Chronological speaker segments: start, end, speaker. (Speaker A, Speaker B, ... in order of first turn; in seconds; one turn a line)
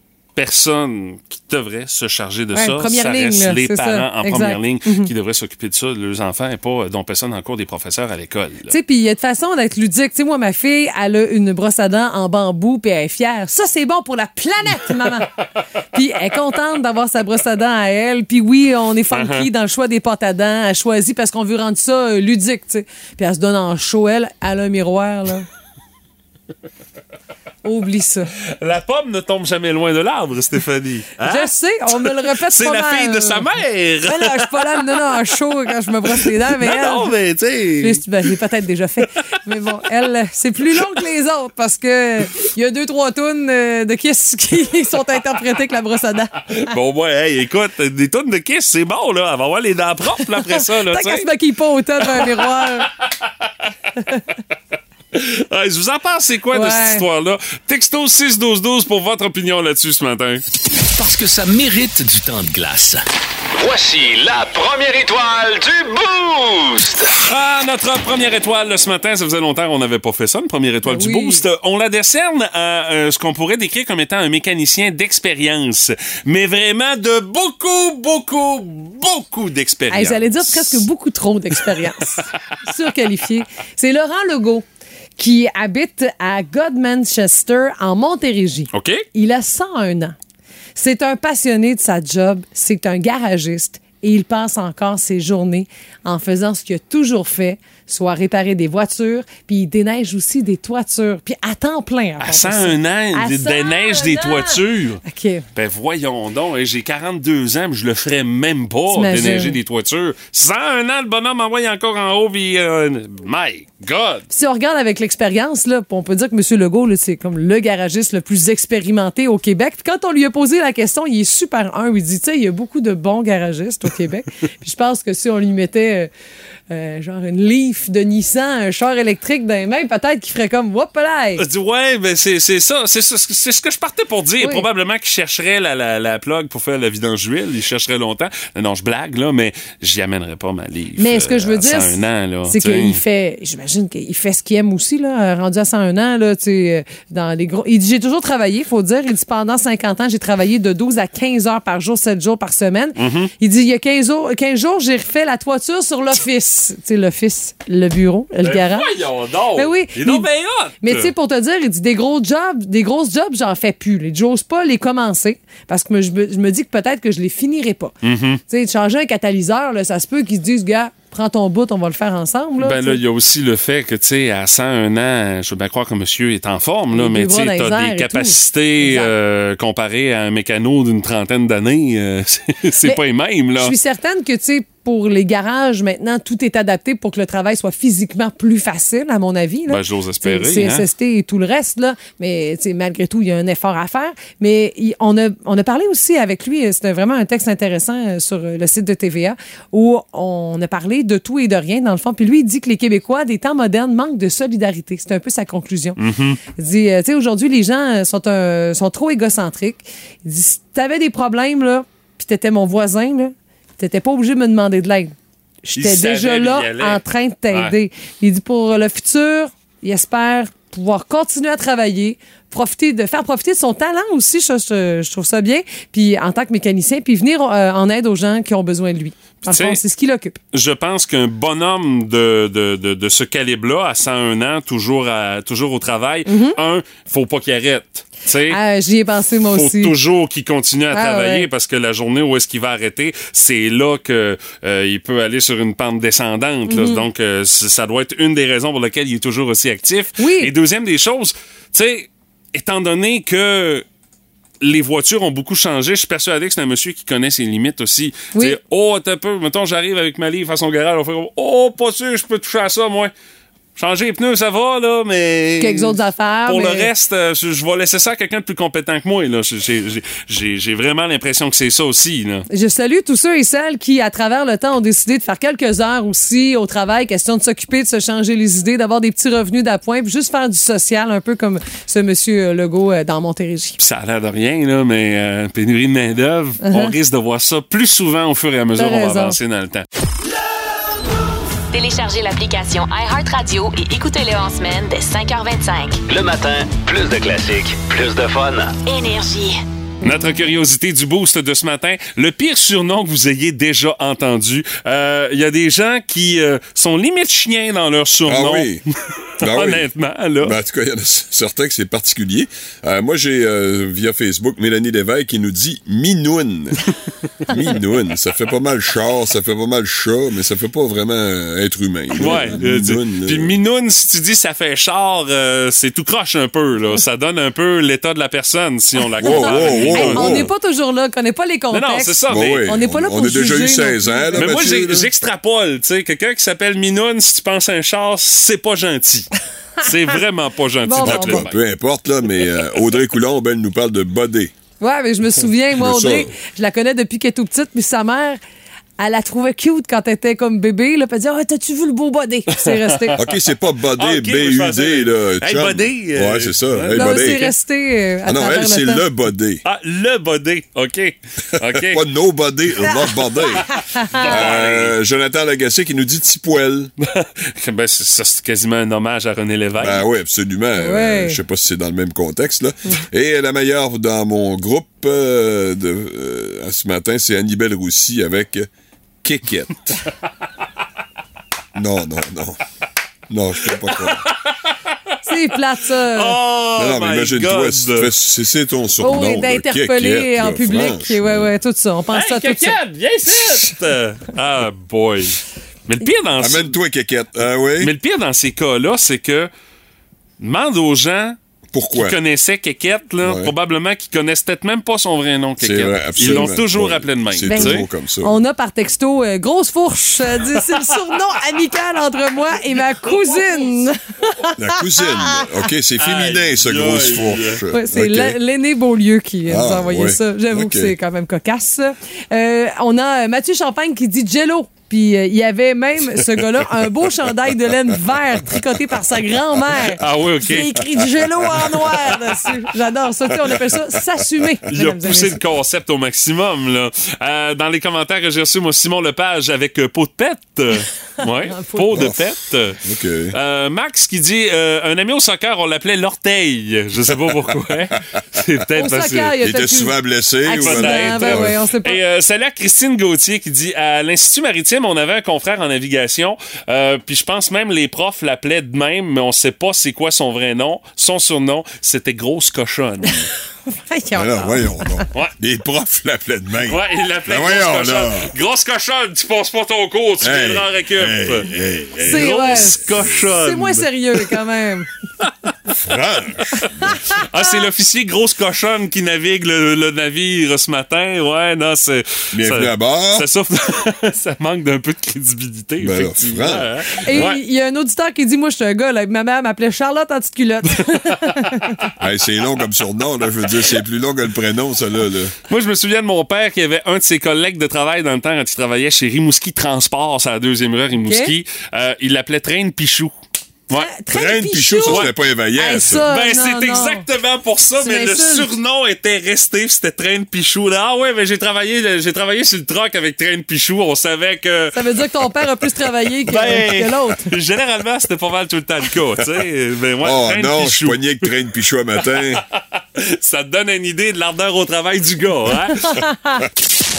Speaker A: 0.3-8.7
Speaker B: 2.5-5.1
Speaker B: 8.7-15.3
Speaker B: 15.9-25.5
Speaker A: 19.1-19.5
Speaker B: 27.6-28.3
Speaker A: 28.5-35.1
Speaker B: 31.2-33.5
Speaker B: 34.0-37.1
Speaker A: 36.1-38.0
Speaker B: 37.8-46.6
Speaker A: 46.5-51.2
Speaker B: 50.3-52.9
Speaker A: 52.1-52.4
Speaker A: 55.1-60.4
Speaker B: 56.5-57.0
Speaker C: 60.8-63.0
Speaker D: 63.6-67.1
Speaker A: 67.2-80.8
Speaker B: 70.8-71.4
Speaker B: 79.9-84.7
Speaker B: 85.2-90.2
Speaker A: 88.7-89.0
Speaker B: 90.8-105.4
Speaker A: 102.2-105.0
Speaker A: 105.5-114.2
Speaker B: 108.9-109.6
Speaker B: 114.3-126.1
Speaker B: 126.7-131.4
Speaker A: 131.4-143.0
Speaker B: 134.4-134.7
Speaker B: 141.0-158.9
Speaker A: 153.0-153.3
Speaker A: 158.4-161.1
Speaker B: 159.5-167.9
Speaker A: 168.0-168.4
Speaker B: 168.5-173.0
Speaker A: 172.6-183.7
Speaker B: 176.9-179.1
Speaker B: 183.6-206.0
Speaker A: 189.7-190.8
Speaker A: 206.0-206.4
Speaker B: 206.6-230.4
Speaker A: 215.8-217.7
Speaker A: 229.4-229.8
Speaker A: 230.5-238.6
Speaker B: 236.2-236.6
Speaker B: 238.5-239.9
Speaker A: 239.5-253.8
Speaker B: 240.9-241.5
Speaker B: 246.7-247.0
Speaker B: 250.2-250.5
Speaker A: 254.6-263.1
Speaker A: 263.8-272.4
Speaker B: 265.6-266.9
Speaker B: 272.5-283.8
Speaker A: 283.8-289.9
Speaker B: 286.6-286.9
Speaker B: 288.7-289.4
Speaker E: 291.7-296.0
Speaker D: 296.1-298.8
Speaker E: 298.8-299.6
Speaker A: 300.0-308.7
Speaker F: 308.3-308.8
Speaker A: 309.4-310.6
Speaker F: 309.4-309.9
Speaker F: 310.4-316.9
Speaker F: 317.4-323.6
Speaker A: 322.2-330.5
Speaker F: 329.2-330.5
Speaker B: 329.2-334.7
Speaker A: 331.7-332.7
Speaker F: 332.3-335.1
Speaker A: 334.4-339.3
Speaker A: 339.8-341.6
Speaker B: 340.8-341.5
Speaker F: 341.0-344.5
Speaker B: 344.8-348.4
Speaker F: 345.8-346.3
Speaker B: 349.0-353.2
Speaker A: 352.5-353.1
Speaker F: 353.1-357.5
Speaker A: 353.9-357.5
Speaker B: 356.9-359.1
Speaker F: 358.2-359.6
Speaker A: 359.6-362.0
Speaker F: 361.7-366.9
Speaker B: 362.8-363.1
Speaker B: 363.7-364.0
Speaker A: 364.1-365.0
Speaker A: 367.0-370.0
Speaker F: 369.8-378.7
Speaker B: 370.8-371.4
Speaker F: 379.2-380.0
Speaker F: 381.8-382.6
Speaker F: 383.3-384.3
Speaker A: 384.2-385.1
Speaker B: 385.2-386.4
Speaker A: 386.1-388.1
Speaker F: 386.8-391.4
Speaker B: 389.0-392.8
Speaker A: 392.1-396.7
Speaker F: 396.4-397.9
Speaker A: 397.8-399.5
Speaker A: 400.4-401.4
Speaker F: 401.7-402.2
Speaker A: 401.9-407.9
Speaker F: 403.2-403.5
Speaker F: 405.6-408.3
Speaker B: 406.2-406.5
Speaker B: 407.4-415.5
Speaker A: 413.0-413.5
Speaker F: 414.6-418.4
Speaker A: 416.0-417.6
Speaker B: 417.7-435.4
Speaker F: 419.5-420.9
Speaker A: 430.0-430.8
Speaker F: 431.4-431.8
Speaker A: 434.7-442.8
Speaker B: 441.2-442.1
Speaker F: 442.8-443.3
Speaker A: 443.3-449.3
Speaker B: 448.7-452.0
Speaker F: 449.4-451.5
Speaker A: 450.6-463.3
Speaker B: 463.6-465.0
Speaker F: 464.1-468.3
Speaker A: 466.7-471.5
Speaker F: 470.2-472.7
Speaker B: 472.0-474.9
Speaker A: 472.1-474.4
Speaker A: 475.2-475.7
Speaker F: 475.8-477.0
Speaker A: 477.2-487.4
Speaker F: 482.3-483.3
Speaker F: 485.8-487.2
Speaker B: 487.0-491.9
Speaker F: 492.0-495.3
Speaker A: 495.5-503.1
Speaker B: 501.0-501.3
Speaker B: 503.8-507.1
Speaker F: 504.1-506.1
Speaker A: 504.8-505.1
Speaker A: 505.8-514.8
Speaker B: 507.8-508.5
Speaker B: 514.7-517.4
Speaker A: 516.2-521.3
Speaker F: 520.0-522.4
Speaker A: 522.8-526.0
Speaker B: 525.8-526.4